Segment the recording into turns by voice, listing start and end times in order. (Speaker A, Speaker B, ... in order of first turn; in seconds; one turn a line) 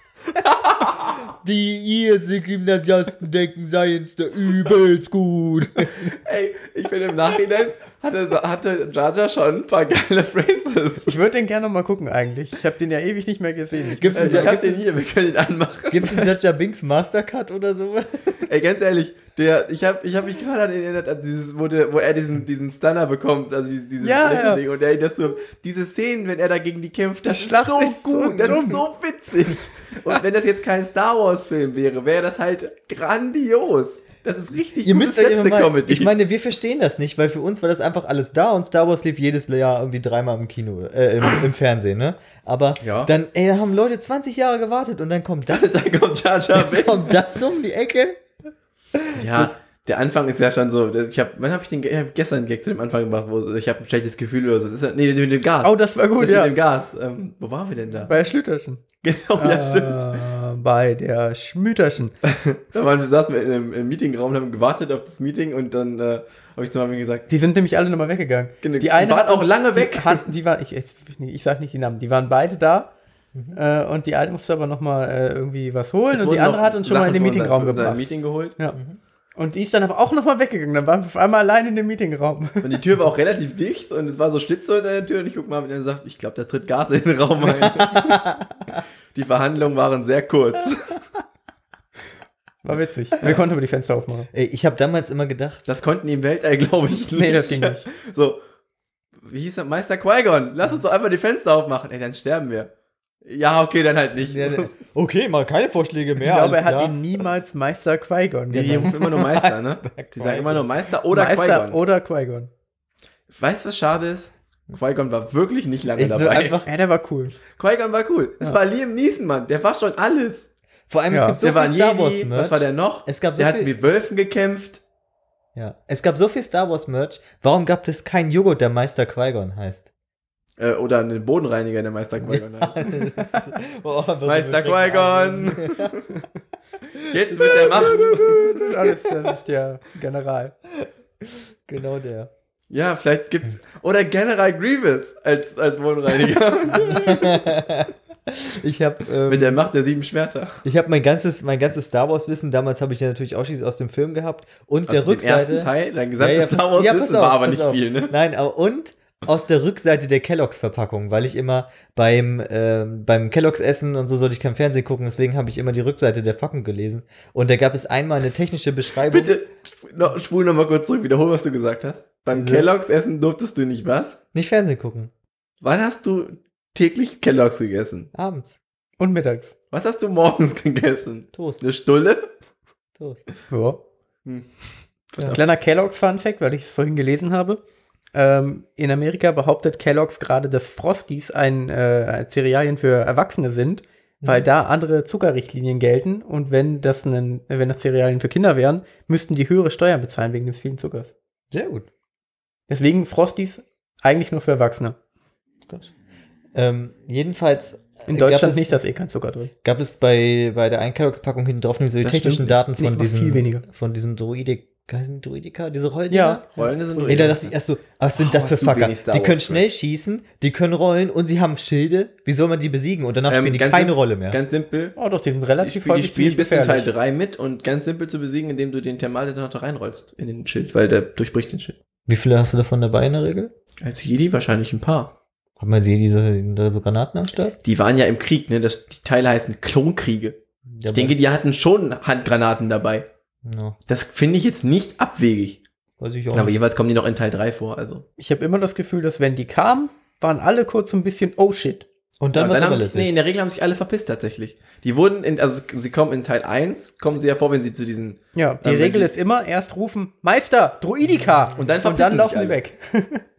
Speaker A: 0.4-1.1
Speaker B: 0.8-6.1
Speaker A: 6.0-11.1
Speaker C: 11.0-14.6
Speaker B: 13.9-14.8
Speaker A: 14.1-16.3
Speaker B: 15.9-18.5
Speaker A: 18.4-36.1
Speaker C: 24.0-24.6
Speaker C: 27.3-28.8
Speaker B: 34.8-45.8
Speaker A: 42.8-43.1
Speaker A: 45.5-47.1
Speaker B: 46.5-48.2
Speaker B: 48.9-49.5
Speaker A: 49.1-58.1
Speaker C: 55.6-56.5
Speaker C: 58.0-58.8
Speaker A: 59.0-60.2
Speaker C: 59.4-62.1
Speaker A: 62.2-67.3
Speaker C: 67.3-72.9
Speaker A: 68.6-70.2
Speaker B: 73.3-73.6
Speaker C: 73.5-78.0
Speaker A: 76.1-78.5
Speaker C: 79.3-82.8
Speaker A: 82.6-88.2
Speaker B: 87.6-88.8
Speaker A: 89.1-91.0
Speaker C: 92.6-94.3
Speaker B: 94.3-95.6
Speaker A: 95.7-98.4
Speaker C: 97.1-97.8
Speaker A: 99.2-102.7
Speaker A: 103.2-104.7
Speaker B: 104.2-107.2
Speaker C: 106.2-109.1
Speaker A: 108.5-111.8
Speaker B: 108.9-110.7
Speaker C: 111.1-112.5
Speaker A: 113.3-116.6
Speaker B: 116.0-116.7
Speaker C: 116.6-117.4
Speaker A: 117.5-120.5
Speaker B: 120.9-123.7
Speaker C: 121.1-121.4
Speaker A: 121.4-124.8
Speaker B: 125.5-129.9
Speaker A: 130.6-133.1
Speaker B: 132.2-136.0
Speaker A: 134.2-136.1
Speaker A: 137.1-138.4
Speaker B: 137.2-139.3
Speaker C: 137.4-140.5
Speaker B: 141.3-142.3
Speaker A: 142.7-147.5
Speaker B: 146.7-149.7
Speaker A: 149.3-150.6
Speaker B: 150.6-169.3
Speaker A: 154.9-158.1
Speaker A: 169.1-174.2
Speaker B: 172.3-172.7
Speaker B: 174.3-175.1
Speaker A: 175.6-178.1
Speaker B: 178.1-178.6
Speaker C: 179.0-179.5
Speaker A: 179.7-182.3
Speaker B: 181.3-181.6
Speaker B: 183.0-183.2
Speaker C: 183.5-183.8
Speaker A: 185.1-185.4
Speaker C: 185.2-187.6
Speaker C: 188.1-201.1
Speaker B: 201.5-201.9
Speaker C: 202.7-204.9
Speaker B: 206.5-208.8
Speaker C: 208.1-209.5
Speaker B: 209.6-216.4
Speaker A: 212.0-212.6
Speaker C: 212.8-213.6
Speaker C: 216.1-217.4
Speaker A: 216.5-217.5
Speaker B: 217.1-224.4
Speaker A: 218.2-219.6
Speaker A: 223.3-224.9
Speaker C: 225.0-226.9
Speaker A: 225.6-231.8
Speaker B: 232.1-233.5
Speaker A: 233.8-235.1
Speaker B: 235.6-237.6
Speaker A: 237.6-240.4
Speaker B: 240.7-241.2
Speaker A: 240.9-243.1
Speaker B: 243.4-243.8
Speaker A: 243.9-245.6
Speaker B: 246.0-246.6
Speaker A: 246.3-248.0
Speaker C: 248.2-251.8
Speaker B: 252.2-253.1
Speaker A: 252.3-259.1
Speaker C: 258.3-263.2
Speaker A: 261.5-262.6